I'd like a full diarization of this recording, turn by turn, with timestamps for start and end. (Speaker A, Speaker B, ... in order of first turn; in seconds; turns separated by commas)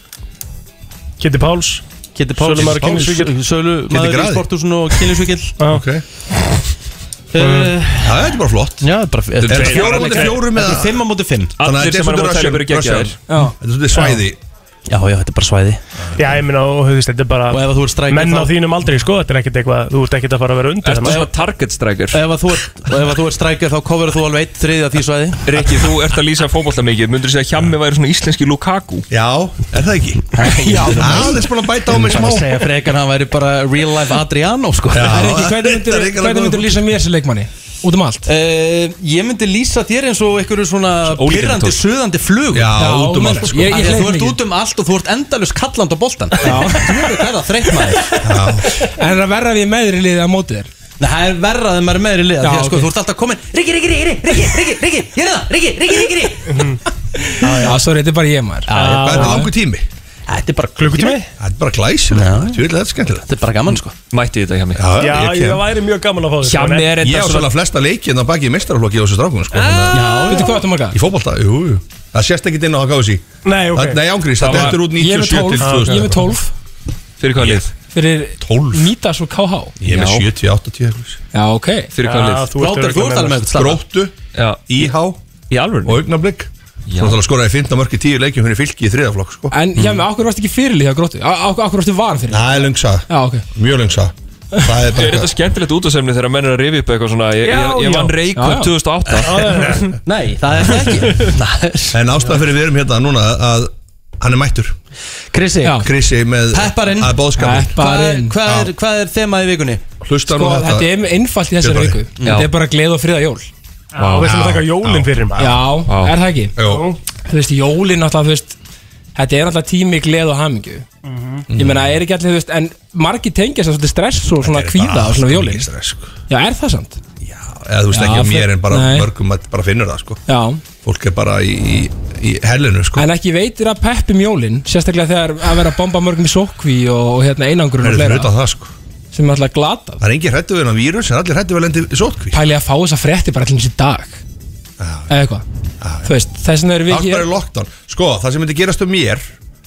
Speaker A: 1.2-1.8, Speaker B: 2.1-5.6, Speaker A: 2.3-3.3, Speaker C: 2.5-3.1, Speaker C: 3.9-4.5, Speaker A: 5.6-5.8, Speaker C: 5.6-6.0, Speaker B: 7.3-11.6, Speaker A: 7.4-7.7, Speaker C: 8.0-11.1, Speaker A: 9.5-10.4, Speaker D: 9.9-10.3, Speaker D: 11.6-13.2, Speaker C: 11.6-14.4, Speaker E: 13.2-13.6, Speaker A: 13.9-14.2, Speaker B: 14.9-15.8, Speaker A: 16.1-21.3, Speaker B: 17.5-18.5, Speaker D: 20.8-22.2, Speaker B: 22.1-25.6, Speaker D: 25.5-29.1, Speaker C: 29.1-32.6, Speaker B: 30.4-35.3, Speaker E: 30.4-31.5, Speaker C: 34.9-36.8, Speaker E: 35.0-38.3, Speaker B: 38.2-48.1, Speaker D: 41.0-41.8, Speaker C: 42.5-44.0, Speaker E: 42.7-44.4, Speaker E: 46.4-47.0, Speaker E: 48.0-50.7, Speaker C: 48.2-48.7, Speaker B: 51.0-56.7, Speaker E: 52.4-52.9, Speaker A: 56.5-56.8, Speaker A: 57.4-57.8, Speaker E: 57.5-59.5, Speaker B: 58.7-59.5, Speaker A: 58.8-59.5, Speaker C: 58.8-59.9, Speaker B: 60.3-61.2, Speaker A: 60.8-61.3, Speaker C: 61.4-63.2, Speaker B: 62.1-62.6, Speaker B: 63.2-63.9, Speaker D: 64.1-64.8, Speaker C: 64.8-65.6, Speaker A: 65.0-67.0, Speaker D: 66.4-67.5, Speaker C: 67.0-70.1, Speaker A: 69.5-70.5, Speaker D: 69.5-70.1, Speaker B: 69.9-70.6, Speaker E: 70.3-71.0, Speaker C: 70.9-76.4, Speaker A: 73.4-74.0, Speaker D: 74.3-74.9, Speaker E: 74.8-76.5, Speaker A: 75.6-76.2, Speaker D: 77.2-77.7, Speaker E: 77.8-80.2, Speaker C: 78.4-78.9, Speaker C: 79.8-81.2, Speaker E: 81.3-81.9, Speaker D: 81.9-82.5, Speaker A: 82.0-83.5, Speaker B: 82.5-83.8, Speaker C: 83.5-84.1, Speaker D: 84.3-84.9, Speaker C: 84.7-85.2, Speaker D: 85.5-86.0, Speaker C: 85.8-89.5, Speaker D: 86.9-87.2, Speaker E: 89.5-93.5, Speaker C: 92.3-94.1, Speaker C: 94.6-95.3, Speaker D: 94.9-99.7, Speaker A: 97.4-98.2, Speaker E: 98.3-98.7, Speaker A: 99.1-100.0, Speaker B: 100.0-102.0, Speaker C: 101.9-104.8, Speaker B: 105.3-105.9, Speaker E: 105.6-105.9, Speaker C: 105.7-108.7, Speaker B: 106.5-109.8, Speaker E: 107.3-108.4, Speaker C: 110.0-111.0, Speaker E: 110.2-113.5, Speaker C: 111.6-112.0, Speaker D: 112.2-112.5, Speaker A: 113.9-115.5, Speaker D: 114.0-114.5, Speaker C: 114.2-115.8, Speaker E: 115.4-116.5, Speaker D: 115.8-116.2, Speaker C: 116.6-116.9, Speaker A: 116.6-117.0, Speaker E: 117.2-118.6, Speaker E: 119.2-120.9, Speaker A: 121.0-121.5, Speaker C: 121.5-122.0, Speaker E: 121.5-125.7, Speaker C: 124.4-126.1, Speaker E: 126.3-127.0, Speaker C: 127.2-130.2, Speaker E: 127.9-129.1, Speaker E: 130.3-130.7, Speaker C: 130.7-133.1, Speaker E: 132.9-138.3, Speaker C: 137.8-138.7, Speaker E: 139.1-140.0, Speaker C: 140.0-142.4, Speaker E: 142.3-144.2, Speaker C: 144.8-145.1, Speaker E: 145.1-145.4, Speaker C: 145.8-146.1, Speaker E: 146.0-147.3, Speaker C: 146.9-149.3